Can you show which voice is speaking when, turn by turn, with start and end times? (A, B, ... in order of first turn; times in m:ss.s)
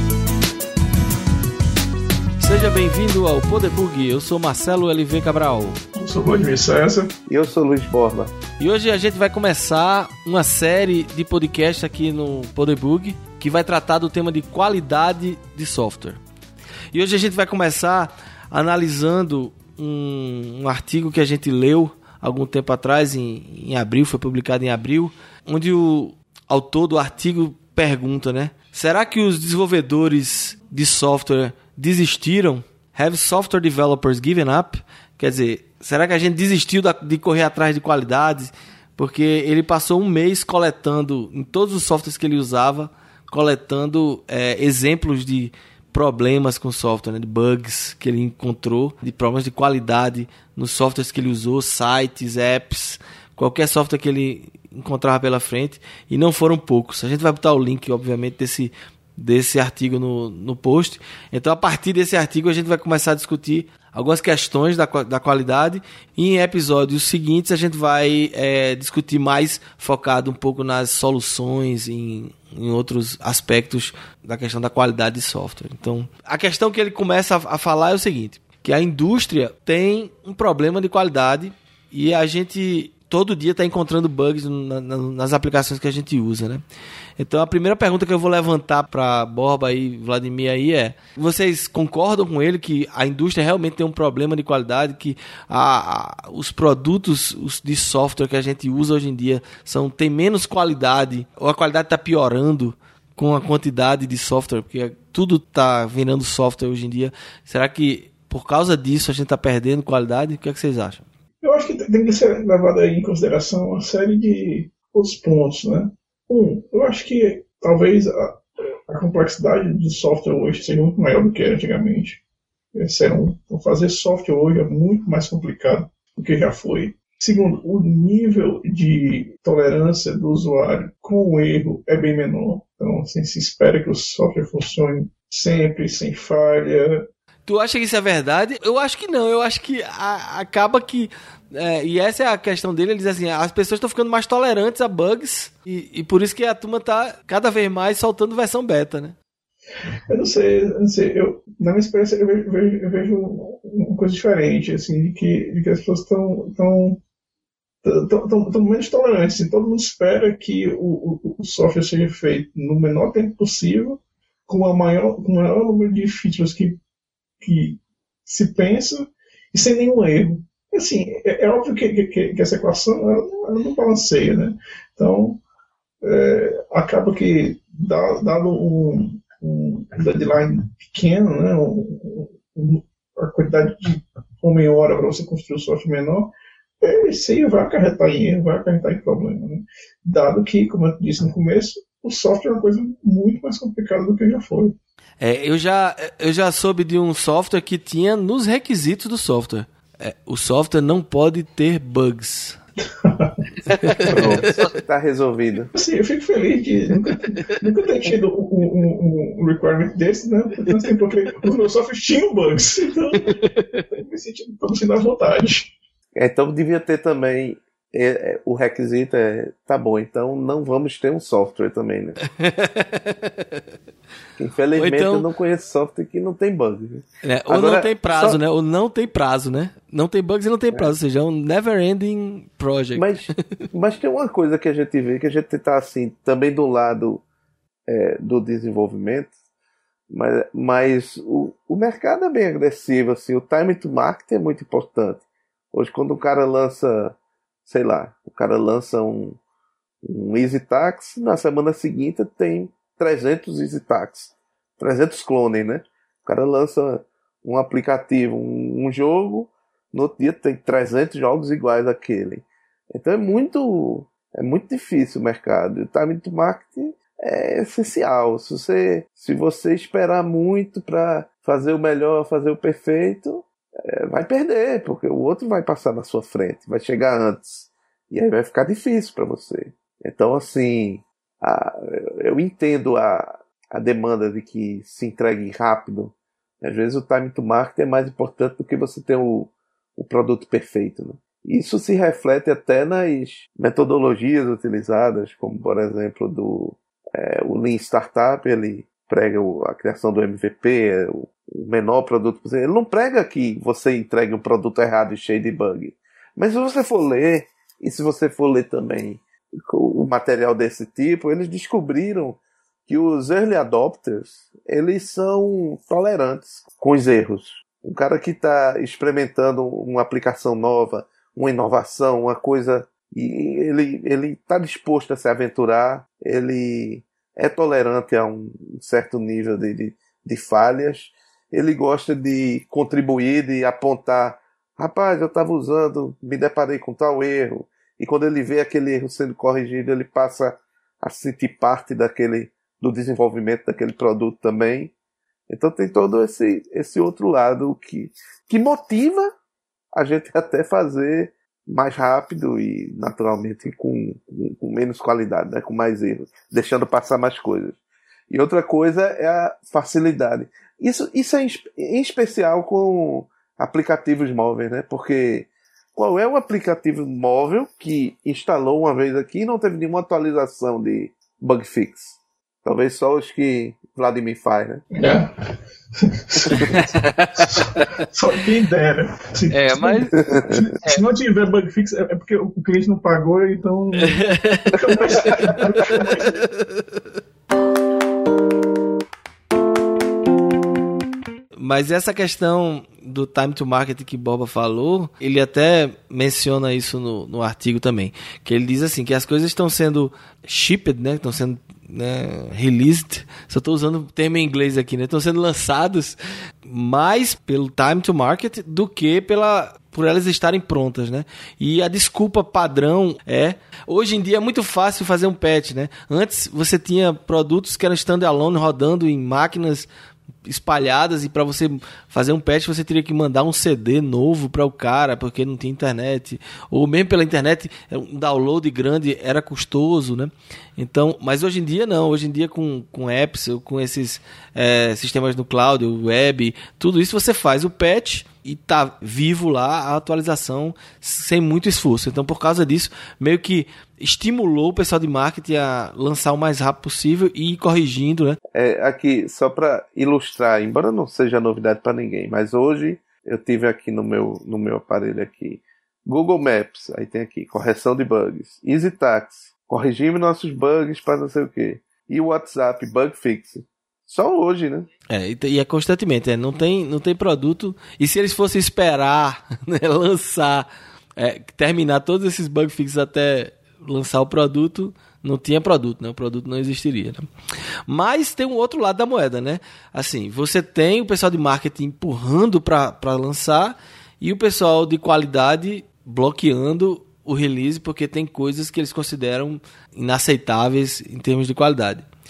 0:02.4-0:05.8 A
0:06.0-0:07.1 B
0:07.3-0:08.3 C
0:08.6-0:16.2 A
0:16.9-1:26.6 A
1:27.2-1:51.1 A
1:51.4-2:02.2 B
2:02.7-2:17.0 B
2:17.5-2:29.2 A
2:30.1-2:37.0 B
2:37.8-2:46.8 B
2:47.4-2:55.4 B
2:56.0-3:14.7 B
3:15.2-3:22.6 A
3:23.0-3:23.4 B
3:23.9-3:24.4 A
3:24.1-3:25.7 C
3:25.8-3:35.7 B
3:36.2-3:42.2 C
3:42.2-3:43.6 A
3:44.4-3:48.4 C
3:44.8-3:45.3 A
3:47.2-3:53.6 A
3:53.0-3:57.2 C
3:57.9-3:59.3 C
4:00.1-4:09.4 C
4:10.0-5:44.9 C
5:45.5-5:49.3 C
5:49.9-6:14.9 C
6:14.9-6:15.3 B
6:16.0-6:26.4 B
6:16.5-6:16.8 C
6:19.5-6:20.1 A
6:20.2-6:20.6 C
6:24.0-6:26.8 A
6:31.6-6:59.9 A
7:00.5-7:28.4 A
7:28.5-7:44.9 C
7:45.1-7:50.7 A
7:51.2-7:57.3 A
7:57.9-8:12.1 A